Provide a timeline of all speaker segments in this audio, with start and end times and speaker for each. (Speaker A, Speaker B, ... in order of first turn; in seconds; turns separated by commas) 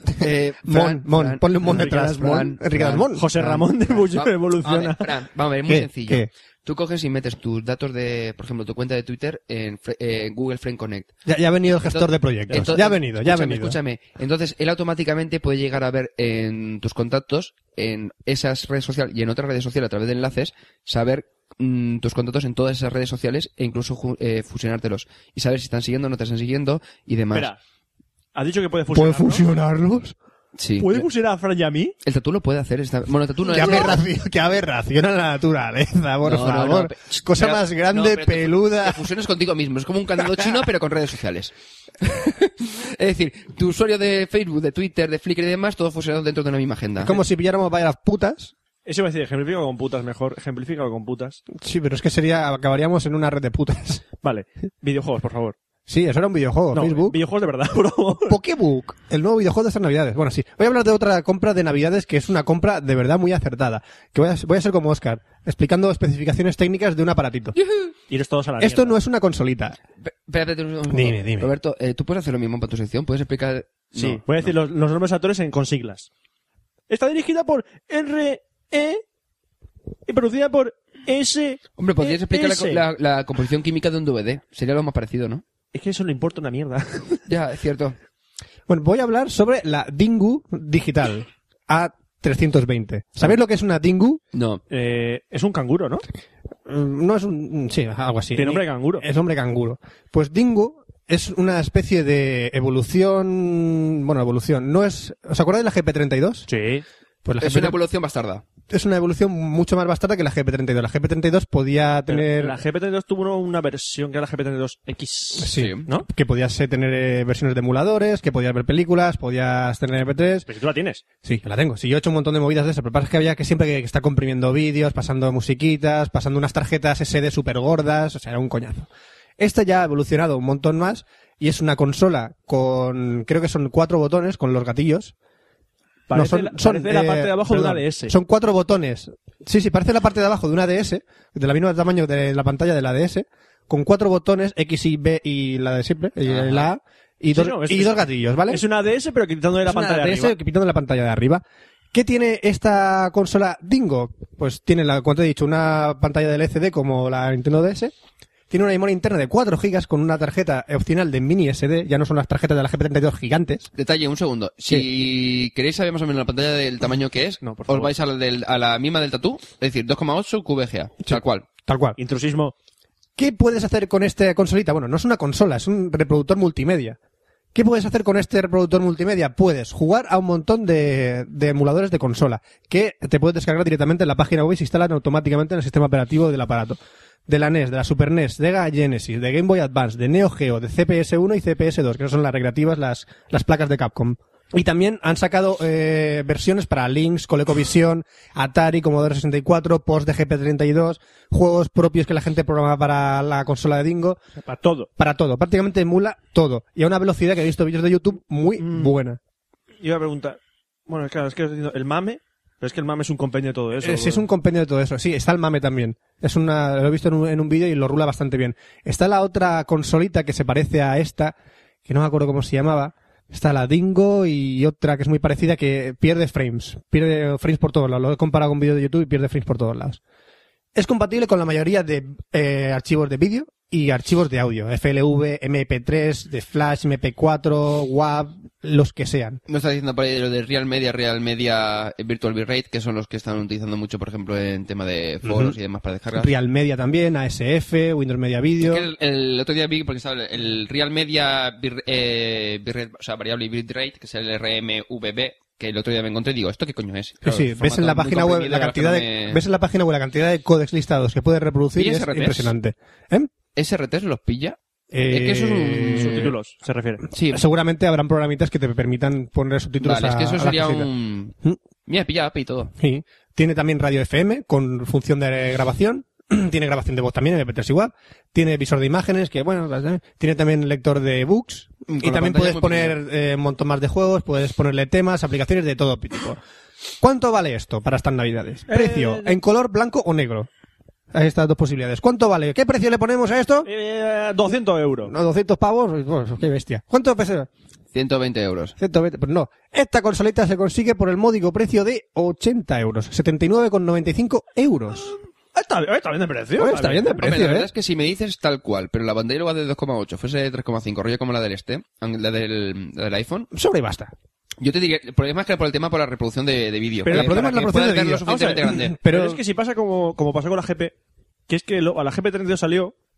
Speaker A: 0.2-11.1, Speaker B: 0.2-3.5, Speaker C: 3.1-5.1, Speaker B: 5.7-6.3, Speaker B: 11.2-13.8, Speaker A: 11.8-27.5, Speaker C: 27.3-27.6, Speaker C: 28.3-29.4, Speaker B: 28.9-30.1, Speaker A: 30.6-31.1, Speaker C: 30.8-31.9, Speaker A: 32.0-34.0, Speaker B: 33.5-39.1, Speaker A: 36.2-47.2, Speaker B: 40.2-40.7, Speaker B: 47.0-48.5, Speaker C: 48.8-51.4, Speaker B: 51.5-54.0, Speaker C: 54.2-55.5, Speaker B: 55.9-57.2, Speaker C: 56.7-58.4, Speaker B: 58.3-67.5, Speaker A: 67.5-67.9, Speaker C: 68.1-69.0, Speaker B: 68.6-69.8, Speaker A: 70.0-74.5, Speaker B: 70.9-71.5, Speaker C: 74.0-76.1, Speaker C: 76.9-79.0, Speaker C: 80.1-82.8, Speaker A: 81.8-85.4, Speaker C: 85.7-87.2, Speaker A: 87.3-88.0, Speaker B: 88.7-94.2, Speaker A: 94.3-94.6, Speaker C: 94.7-96.0, Speaker B: 96.7-106.5, Speaker C: 98.3-99.0, Speaker C: 106.5-106.8, Speaker B: 107.2-107.8, Speaker A: 107.4-108.4, Speaker B: 108.7-112.6, Speaker C: 112.1-116.1, Speaker B: 115.4-120.5, Speaker A: 115.5-115.8, Speaker C: 120.5-121.0, Speaker B: 121.2-135.1, Speaker C: 136.1-138.1, Speaker B: 136.1-148.6, Speaker A: 146.3-146.6, Speaker C: 147.3-150.3, Speaker B: 149.6-157.9, Speaker B: 158.5-163.7, Speaker A: 163.8-171.4, Speaker C: 167.4-167.9, Speaker B: 171.0-172.0, Speaker C: 172.0-172.5, Speaker B: 173.2-177.0, Speaker B: 177.5-204.2, Speaker C: 204.4-204.9, Speaker B: 205.0-209.2, Speaker C: 208.6-208.9, Speaker C: 209.8-214.2, Speaker B: 213.8-221.3, Speaker B: 221.8-230.0, Speaker B: 230.7-239.4, Speaker A: 239.5-246.3, Speaker B: 245.2-245.6, Speaker B: 246.1-248.9, Speaker A: 248.6-259.4, Speaker B: 257.2-263.3, Speaker A: 261.8-262.5, Speaker A: 263.5-264.6, Speaker B: 264.9-266.3, Speaker A: 265.1-266.3, Speaker C: 266.0-267.0, Speaker A: 267.1-267.4, Speaker B: 267.3-270.9, Speaker A: 269.8-272.7, Speaker B: 272.8-286.4, Speaker A: 281.9-283.0, Speaker B: 287.0-290.5, Speaker C: 288.7-289.4, Speaker B: 291.1-293.7, Speaker C: 293.6-295.1, Speaker B: 295.1-297.5, Speaker A: 297.9-298.7, Speaker B: 298.8-305.1, Speaker C: 305.5-307.2, Speaker B: 306.6-307.7, Speaker A: 307.2-313.5, Speaker B: 313.5-314.1, Speaker A: 314.6-318.9, Speaker C: 317.0-320.9, Speaker B: 317.1-319.4, Speaker C: 321.5-322.9